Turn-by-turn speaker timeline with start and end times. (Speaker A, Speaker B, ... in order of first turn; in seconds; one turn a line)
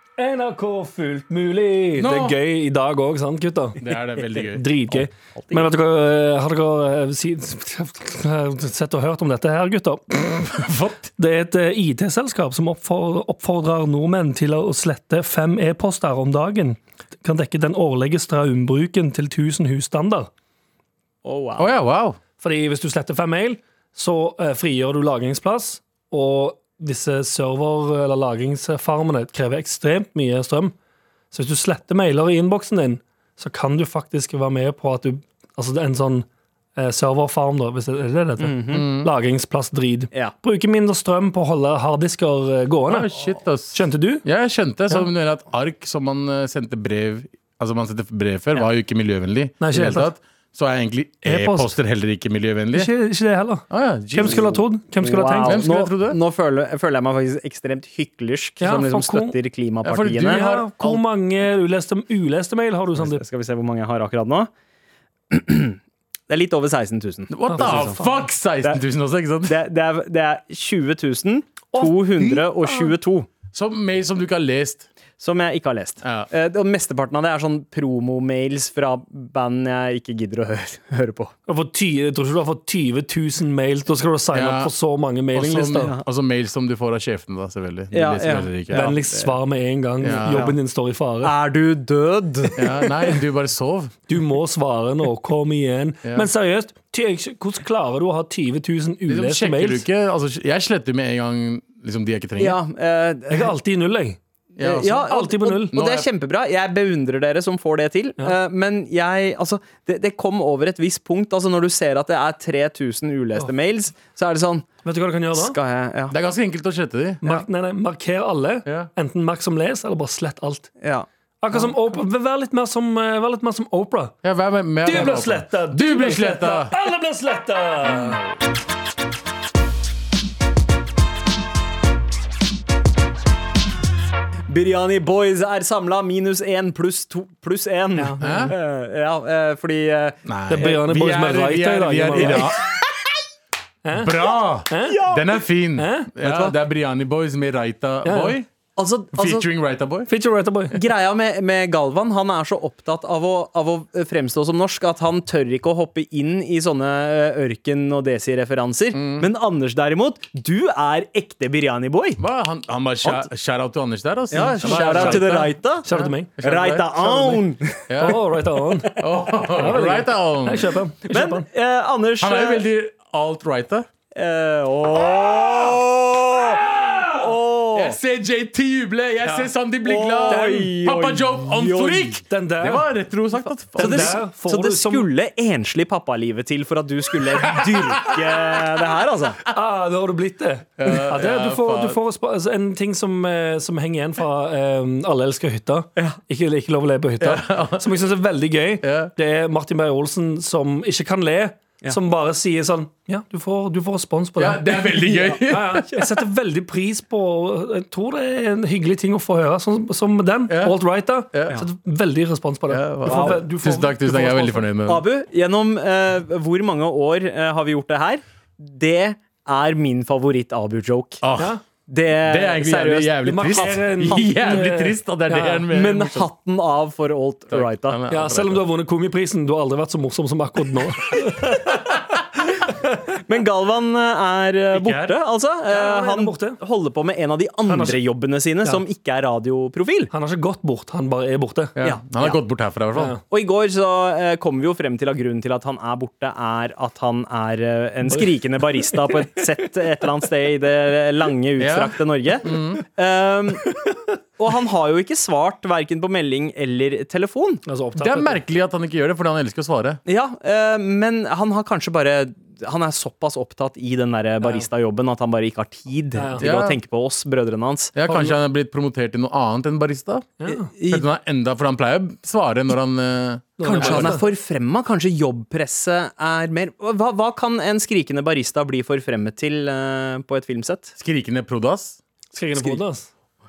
Speaker A: 0.2-10.6
Speaker B: 2.0-2.4
Speaker B: 3.8-4.7
Speaker C: 4.9-5.7
Speaker B: 10.5-11.1
Speaker A: 11.2-20.3
Speaker C: 21.2-21.7
Speaker B: 21.6-22.2
Speaker A: 22.4-30.7
Speaker A: 31.3-43.2
Speaker C: 38.4-38.9
Speaker B: 38.7-39.1
Speaker B: 42.9-52.9
Speaker A: 43.7-44.2
Speaker A: 49.6-50.1
Speaker A: 51.2-51.7
Speaker A: 52.7-55.7
Speaker B: 53.7-54.5
Speaker C: 55.0-61.0
Speaker B: 55.4-56.2
Speaker A: 58.6-59.4
Speaker B: 59.8-60.7
Speaker A: 60.2-63.2
Speaker C: 63.0-64.5
Speaker C: 65.3-65.8
Speaker C: 66.3-68.1
Speaker B: 67.3-69.6
Speaker A: 67.5-68.2
Speaker C: 69.5-73.3
Speaker A: 71.7-72.9
Speaker B: 73.5-74.9
Speaker C: 75.2-81.3
Speaker B: 76.0-76.3
Speaker A: 81.5-85.9
Speaker B: 84.3-84.7
Speaker B: 85.3-88.9
Speaker C: 85.8-86.0
Speaker C: 87.9-89.3
Speaker A: 88.7-91.3
Speaker B: 90.0-90.5
Speaker C: 91.2-92.9
Speaker B: 92.6-94.0
Speaker A: 94.1-99.8
Speaker B: 99.1-102.6
Speaker C: 102.4-103.5
Speaker A: 103.3-104.2
Speaker B: 104.6-105.1
Speaker C: 104.6-114.7
Speaker A: 105.0-105.7
Speaker B: 105.7-106.0
Speaker A: 114.8-115.5
Speaker C: 115.3-116.2
Speaker B: 116.1-117.2
Speaker A: 117.2-120.7
Speaker C: 120.8-121.1
Speaker A: 121.4-124.1
Speaker B: 124.2-126.7
Speaker A: 124.8-128.2
Speaker B: 127.9-128.2
Speaker C: 134.5-140.8
Speaker A: 137.9-138.5
Speaker B: 138.2-138.5
Speaker B: 140.2-142.6
Speaker A: 140.5-142.6
Speaker C: 142.2-142.6
Speaker A: 143.8-144.1
Speaker B: 143.9-148.5
Speaker A: 144.7-145.0
Speaker C: 144.9-145.4
Speaker A: 145.8-146.1
Speaker C: 146.2-146.6
Speaker A: 148.0-148.3
Speaker C: 148.8-149.5
Speaker B: 149.1-150.1
Speaker A: 150.1-150.8
Speaker C: 150.7-162.2
Speaker B: 158.9-159.3
Speaker B: 162.2-167.4
Speaker C: 164.3-165.9
Speaker A: 164.6-166.3
Speaker C: 166.4-168.1
Speaker B: 167.9-168.2
Speaker A: 167.9-168.9
Speaker B: 168.9-170.7
Speaker A: 169.5-171.4
Speaker C: 171.1-172.7
Speaker B: 172.2-173.9
Speaker C: 174.1-178.0
Speaker B: 177.7-184.2
Speaker A: 179.2-179.5
Speaker C: 179.8-182.2
Speaker A: 182.3-182.9
Speaker A: 183.7-185.1
Speaker C: 183.8-189.4
Speaker B: 187.5-188.6
Speaker A: 189.4-204.8
Speaker B: 190.8-192.0
Speaker B: 197.2-197.9
Speaker B: 198.8-199.1
Speaker B: 204.4-206.0
Speaker C: 205.0-205.4
Speaker A: 205.4-214.7
Speaker B: 210.5-210.8
Speaker B: 211.3-211.6
Speaker B: 212.7-215.0
Speaker C: 213.1-213.4
Speaker C: 214.8-221.2
Speaker B: 221.2-221.5
Speaker A: 221.4-221.6
Speaker C: 221.9-224.5
Speaker B: 222.2-226.3
Speaker A: 223.2-225.7
Speaker C: 225.7-228.0
Speaker B: 227.5-228.6
Speaker A: 228.1-232.0
Speaker C: 233.3-240.1
Speaker B: 234.7-235.2
Speaker A: 235.7-236.6
Speaker A: 237.7-238.0
Speaker A: 240.1-241.7
Speaker B: 241.8-243.2
Speaker C: 241.8-242.4
Speaker A: 242.9-243.2
Speaker C: 243.2-253.7
Speaker A: 248.1-249.2
Speaker B: 251.6-252.8
Speaker C: 254.4-257.6
Speaker A: 257.6-258.4
Speaker B: 258.0-260.0
Speaker C: 260.1-267.9
Speaker A: 266.1-266.4
Speaker B: 266.4-266.8
Speaker B: 267.9-270.3
Speaker A: 268.1-268.4
Speaker A: 270.4-270.7
Speaker C: 270.5-271.1
Speaker B: 270.9-274.2
Speaker A: 273.6-274.2
Speaker C: 273.6-280.9
Speaker B: 281.0-282.0
Speaker A: 282.3-283.1